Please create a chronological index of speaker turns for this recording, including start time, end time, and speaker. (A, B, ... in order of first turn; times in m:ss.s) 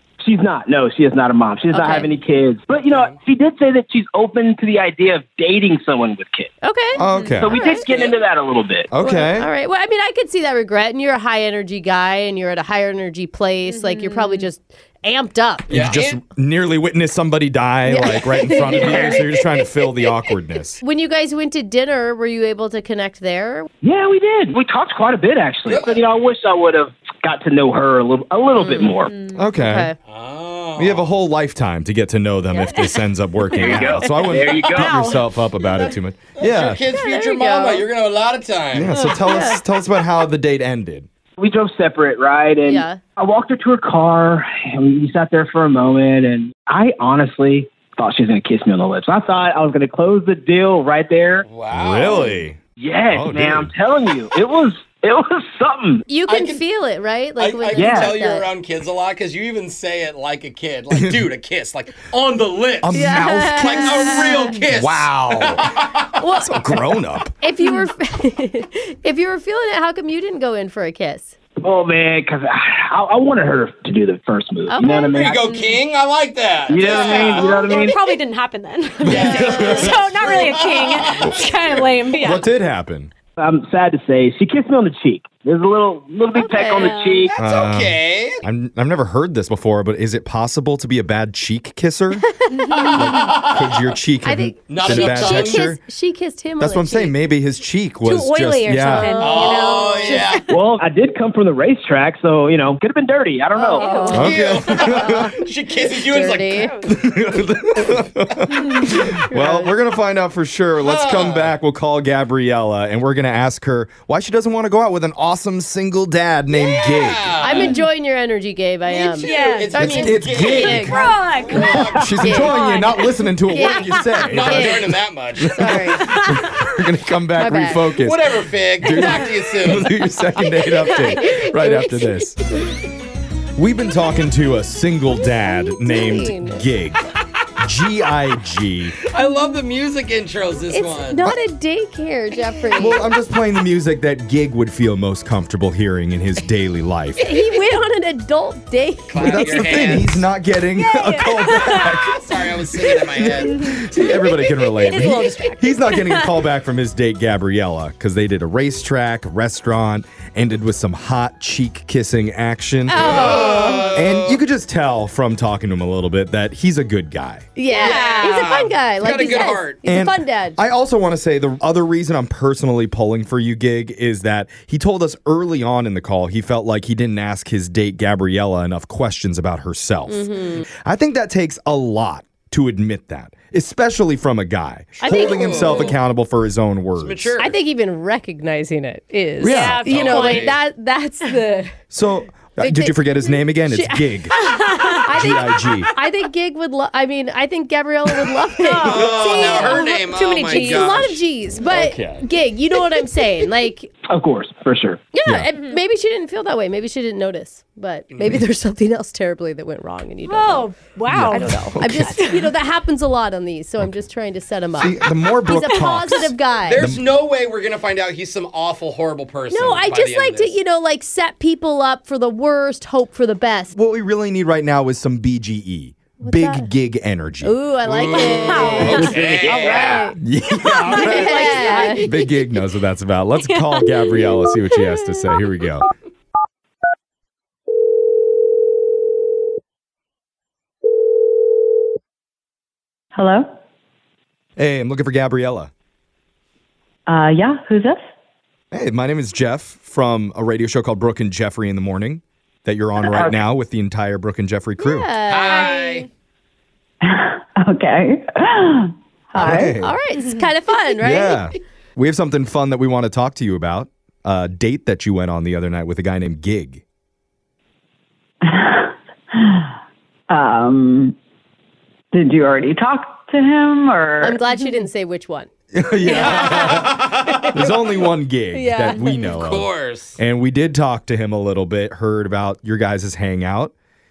0:00.2-0:06.5 A
0:01.7-0:02.1 B
0:02.9-0:03.1 C
0:06.6-0:07.8 B
0:07.0-0:07.5 D
0:07.0-0:07.5 E
0:07.4-0:08.9 A
0:07.9-0:08.2 C
0:08.9-0:09.5 D
0:09.0-0:15.8 B
0:13.7-0:14.5 E
0:15.7-0:16.2 C
0:15.7-0:20.8 D
0:17.9-0:19.5 B
0:18.7-0:19.2 A
0:20.8-0:23.7 B
0:23.8-0:29.2 A
0:25.6-0:26.0 C
0:29.0-0:29.4 E
0:29.3-0:29.9 D
0:29.5-0:30.0 B
0:30.1-0:31.1 C
0:30.8-0:36.9 D
0:32.5-0:33.0 B
0:33.6-0:35.0 A
0:34.7-0:35.9 E
0:36.4-0:39.0 C
0:37.0-0:37.9 B
0:38.7-0:41.1 D
0:38.9-0:39.6 B
0:41.4-0:51.5 A
0:42.6-0:43.0 B
0:51.4-0:52.3 C
0:51.7-0:52.6 D
0:52.1-0:52.4 B
0:52.8-0:56.0 A
0:53.1-0:53.7 D
0:56.1-0:58.5 B
0:56.3-0:56.6 C
0:57.4-1:03.0 C
0:57.7-0:58.2 A
1:00.9-1:01.2 D
1:02.8-1:04.1 D
1:02.9-1:04.5 B
1:03.5-1:06.2 C
1:04.7-1:05.6 D
1:06.2-1:11.3 B
1:06.4-1:07.3 D
1:11.6-1:15.7 A
1:14.7-1:15.4 B
1:15.1-1:17.9 C
1:16.7-1:18.0 A
1:17.0-1:22.5 E
1:19.0-1:20.1 D
1:19.0-1:22.3 C
1:22.2-1:23.1 D
1:23.4-1:27.3 A
1:26.3-1:26.9 B
1:26.8-1:27.1 E
1:27.2-1:28.4 C
1:27.4-1:32.2 D
1:32.4-1:33.0 B
1:32.7-1:33.8 C
1:32.9-1:35.8 D
1:34.2-1:37.1 B
1:34.7-1:35.7 C
1:36.6-1:39.4 D
1:38.0-1:40.4 E
1:39.0-1:39.2 B
1:39.2-1:40.4 C
1:40.5-1:44.2 A
1:43.6-1:45.4 B
1:43.8-1:44.1 E
1:44.1-1:46.6 C
1:44.1-1:45.3 D
1:46.0-1:46.7 B
1:46.6-1:47.0 E
1:46.9-1:57.6 D
1:48.9-1:49.7 B
1:50.8-1:51.6 C
1:56.5-1:57.8 C
1:57.4-2:01.0 B
1:58.8-2:02.5 C
1:59.3-1:59.7 E
1:59.7-2:12.4 D
2:01.0-2:01.9 E
2:02.2-2:02.6 B
2:02.5-2:03.0 E
2:03.5-2:04.9 B
2:04.3-2:05.8 C
2:05.6-2:06.1 B
2:07.4-2:07.9 B
2:07.9-2:09.9 C
2:10.8-2:12.2 B
2:13.6-2:17.0 D
2:15.1-2:16.6 B
2:17.6-2:18.9 D
2:19.0-2:21.2 C
2:20.7-2:23.1 B
2:22.8-2:27.2 D
2:27.2-2:29.9 B
2:29.1-2:30.3 C
2:29.2-2:47.4 D
2:30.8-2:31.8 E
2:31.6-2:33.6 C
2:33.5-2:36.3 E
2:42.9-2:44.0 B
2:43.0-2:44.4 C
2:47.6-2:50.6 B
2:47.7-2:49.8 C
2:47.7-2:48.4 E
2:49.8-3:07.3 D
3:00.1-3:00.6 B
3:05.0-3:06.0 B
3:05.0-3:06.0 C
3:07.0-3:07.5 C
3:07.4-3:11.7 B
3:09.4-3:10.5 D
3:09.4-3:09.9 E
3:09.8-3:10.6 C
3:11.9-3:14.4 D
3:12.6-3:14.3 B
3:14.4-3:15.0 E
3:15.0-3:23.9 B
3:15.1-3:15.9 D
3:18.6-3:19.8 E
3:18.8-3:21.2 C
3:20.6-3:20.8 E
3:21.6-3:22.3 D
3:24.1-3:25.0 A
3:25.1-3:30.7 B
3:28.1-3:28.4 C
3:30.2-3:32.4 E
3:31.1-3:32.2 D
3:31.3-3:36.9 B
3:34.7-3:37.1 D
3:36.6-3:40.6 C
3:39.5-3:43.7 B
3:43.7-3:47.6 D
3:46.2-3:46.7 B
3:47.4-3:50.2 B
3:47.8-3:50.1 C
3:48.5-3:49.1 E
3:48.9-3:55.9 D
3:49.3-3:49.8 F
3:50.8-3:51.2 C
3:50.8-3:52.1 B
3:51.0-3:52.0 E
3:53.5-3:54.9 E
4:03.1-4:03.5 F
4:04.6-4:05.7 D
4:07.1-4:08.0 F
4:08.7-4:15.1 D
4:13.0-4:13.4 F
4:14.8-4:16.0 B
4:15.3-4:16.1 C
4:15.5-4:15.8 E
4:17.0-4:19.8 F
4:19.4-4:20.0 D
4:19.8-4:21.5 B
4:21.0-4:26.8 D
4:28.4-4:29.7 F
4:30.3-4:31.1 F
4:32.1-4:34.4 F
4:34.2-4:35.5 B
4:35.7-4:43.7 D
4:36.0-4:36.9 E
4:36.1-4:36.5 B
4:36.1-4:37.3 C
4:38.5-4:39.3 B
4:39.3-4:40.2 C